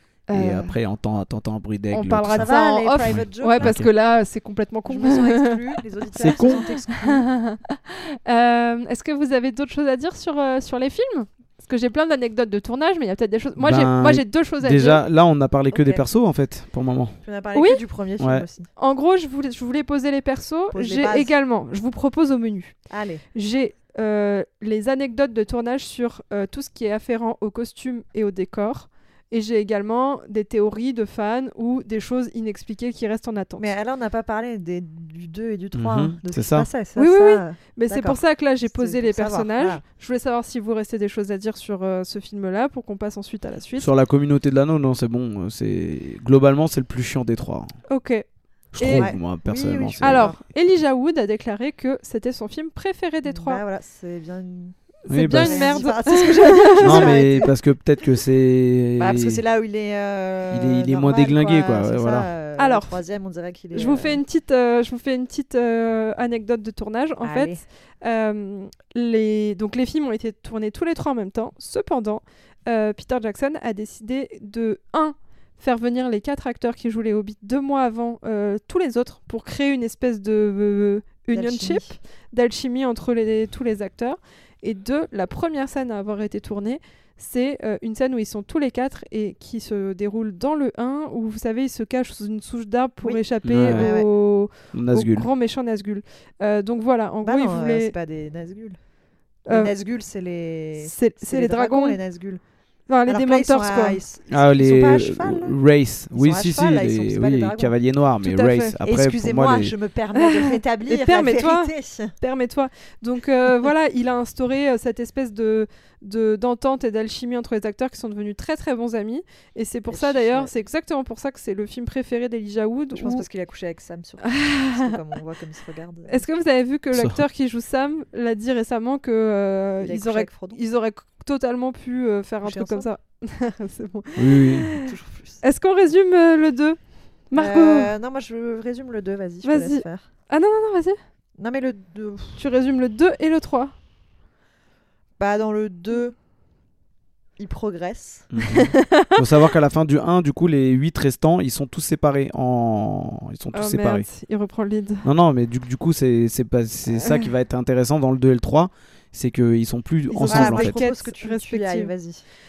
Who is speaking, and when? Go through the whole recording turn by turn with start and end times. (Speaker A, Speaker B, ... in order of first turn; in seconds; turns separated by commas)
Speaker A: 0.3-0.8, Speaker B: 0.3-2.5, Speaker A: 1.9-5.6, Speaker C: 2.3-3.8, Speaker B: 3.1-3.9, Speaker C: 4.9-7.3, Speaker B: 6.2-6.6, Speaker A: 6.2-15.0, Speaker B: 13.6-17.2, Speaker C: 15.7-16.1, Speaker C: 17.2-18.7, Speaker A: 17.6-17.8, Speaker B: 18.2-18.5, Speaker A: 18.8-22.8, Speaker C: 20.7-21.3, Speaker C: 22.9-23.2, Speaker A: 23.3-33.7, Speaker C: 33.6-39.8, Speaker B: 35.7-36.7, Speaker A: 37.0-43.9, Speaker B: 43.8-47.8, Speaker A: 47.9-49.1, Speaker B: 48.7-50.3, Speaker C: 49.0-50.4, Speaker A: 50.0-53.6, Speaker C: 53.3-57.5, Speaker A: 55.0-57.2, Speaker B: 55.1-55.8, Speaker B: 56.8-59.4, Speaker C: 59.0-64.2, Speaker B: 60.5-62.3, Speaker A: 62.6-63.0, Speaker A: 63.7-97.9, Speaker C: 67.2-67.6, Speaker C: 81.3-82.0, Speaker C: 93.0-94.1, Speaker B: 93.5-93.9, Speaker B: 94.7-95.3, Speaker C: 97.2-98.8, Speaker A: 99.5-99.7, Speaker C: 99.5-102.4, Speaker A: 100.8-102.0, Speaker A: 102.9-104.0, Speaker C: 103.1-105.5, Speaker B: 104.3-109.7, Speaker C: 106.1-107.8, Speaker A: 108.2-108.8, Speaker C: 108.8-112.1, Speaker A: 110.2-123.3, Speaker C: 119.9-120.5, Speaker C: 122.9-126.2, Speaker A: 124.2-125.0, Speaker A: 126.1-134.9, Speaker B: 126.9-127.2, Speaker C: 129.8-130.6, Speaker C: 132.4-132.9, Speaker B: 134.2-134.7, Speaker C: 134.8-135.4, Speaker A: 135.4-137.9, Speaker C: 137.3-140.1, Speaker A: 139.4-141.0, Speaker C: 141.4-142.4, Speaker A: 142.4-143.7, Speaker C: 145.2-146.2, Speaker C: 147.4-148.3, Speaker B: 148.3-154.1, Speaker A: 148.4-149.2, Speaker A: 153.5-155.1, Speaker B: 155.0-160.8, Speaker A: 157.0-157.3, Speaker A: 160.1-161.9, Speaker C: 160.2-162.2